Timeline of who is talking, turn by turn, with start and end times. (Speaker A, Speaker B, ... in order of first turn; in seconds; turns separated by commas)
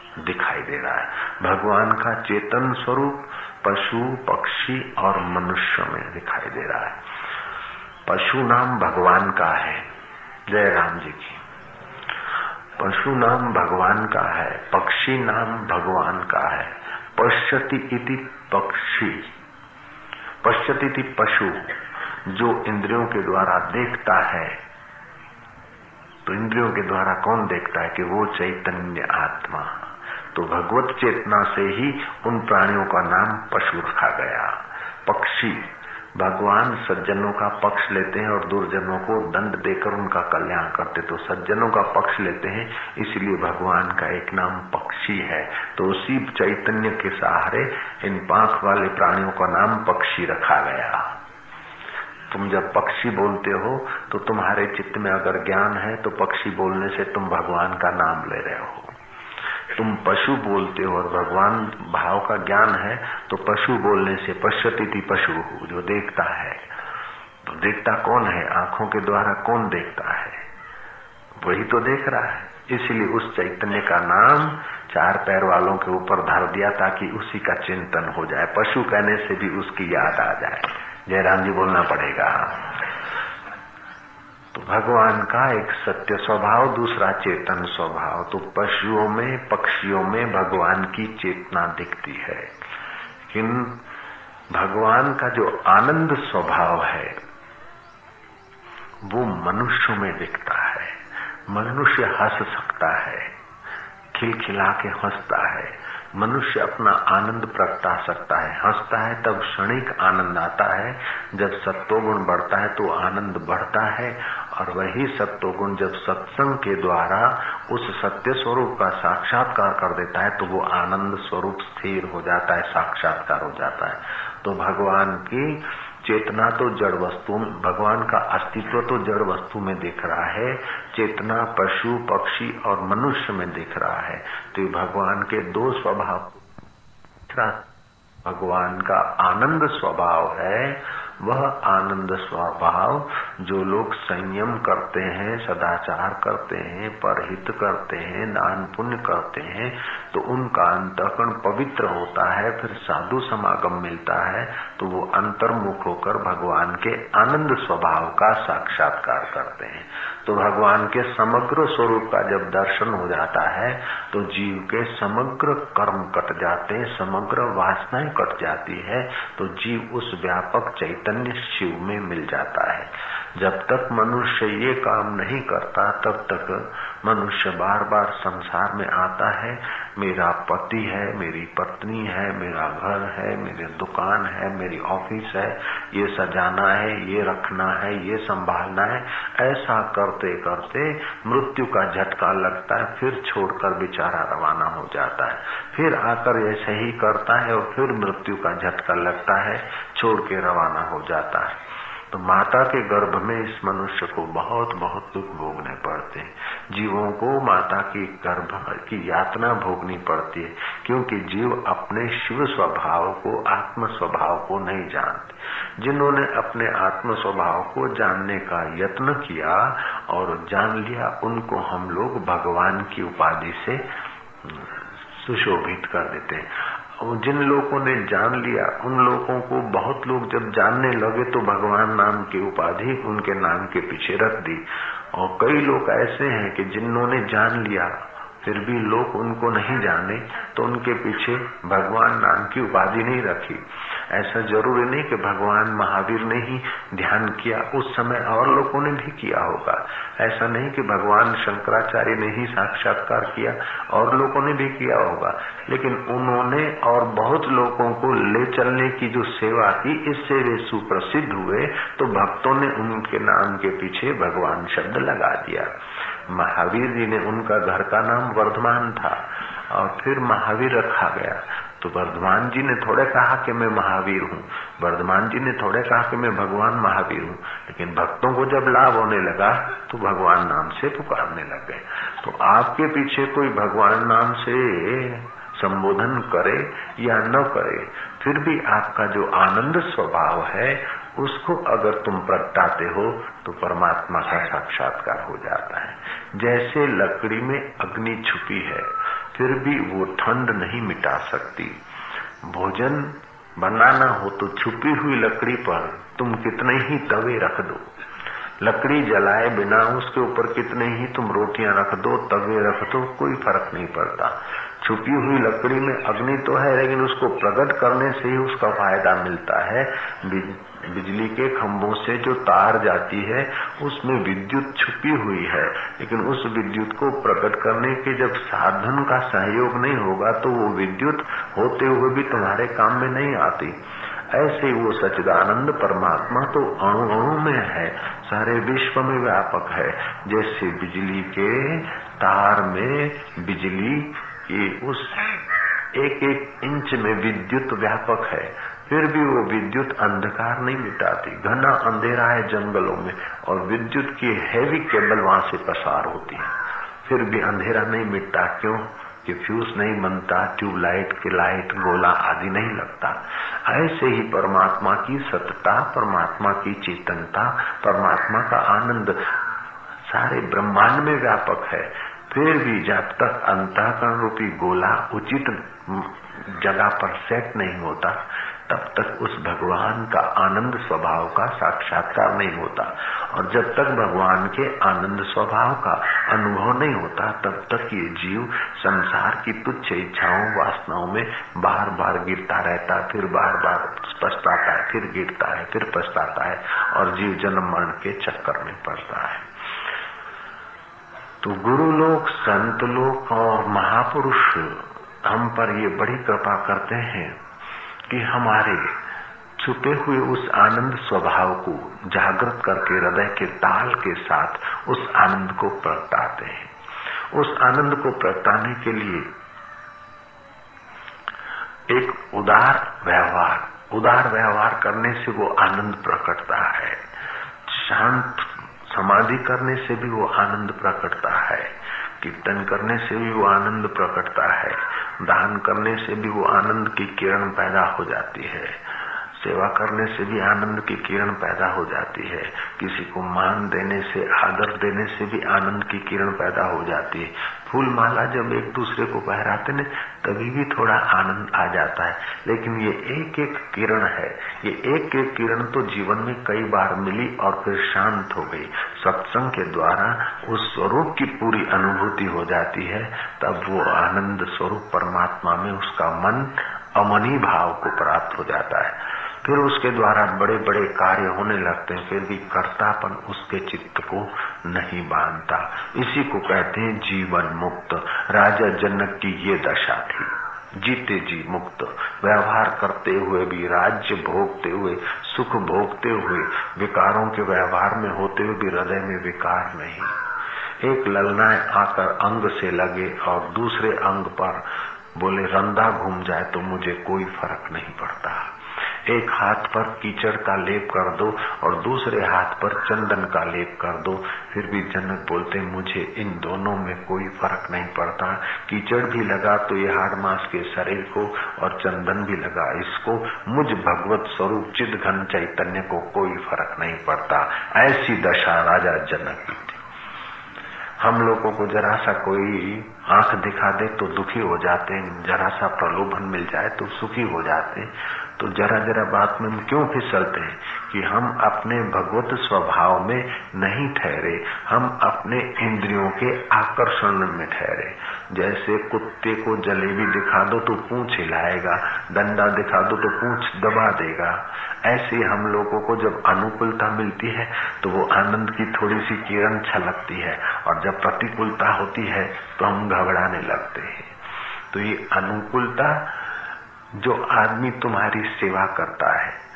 Speaker A: 0.2-7.0, Speaker A: 8.1-9.9, Speaker A: 10.5-11.4, Speaker A: 12.8-19.3, Speaker A: 20.4-24.6, Speaker A: 26.2-29.8, Speaker A: 30.3-51.1, Speaker A: 52.3-58.9, Speaker A: 59.7-66.6, Speaker A: 67.5-70.4, Speaker A: 71.4-82.8, Speaker A: 84.5-92.5, Speaker A: 93.3-93.8, Speaker A: 94.5-97.2, Speaker A: 99.0-103.3, Speaker A: 104.1-136.4, Speaker A: 137.3-137.6, Speaker A: 138.2-201.6, Speaker A: 202.1-223.8, Speaker A: 224.4-265.7, Speaker A: 266.3-301.8, Speaker A: 302.4-307.9, Speaker A: 308.6-333.8, Speaker A: 334.3-345.4, Speaker A: 345.9-369.3, Speaker A: 370.1-399.5, Speaker A: 401.4-407.4, Speaker A: 408.1-408.9, Speaker A: 409.6-416.7, Speaker A: 417.3-419.3, Speaker A: 421.9-427.0, Speaker A: 427.7-438.8, Speaker A: 439.4-490.2, Speaker A: 490.8-498.5, Speaker A: 499.1-519.8, Speaker A: 521.0-554.1, Speaker A: 554.7-556.1, Speaker A: 556.9-559.4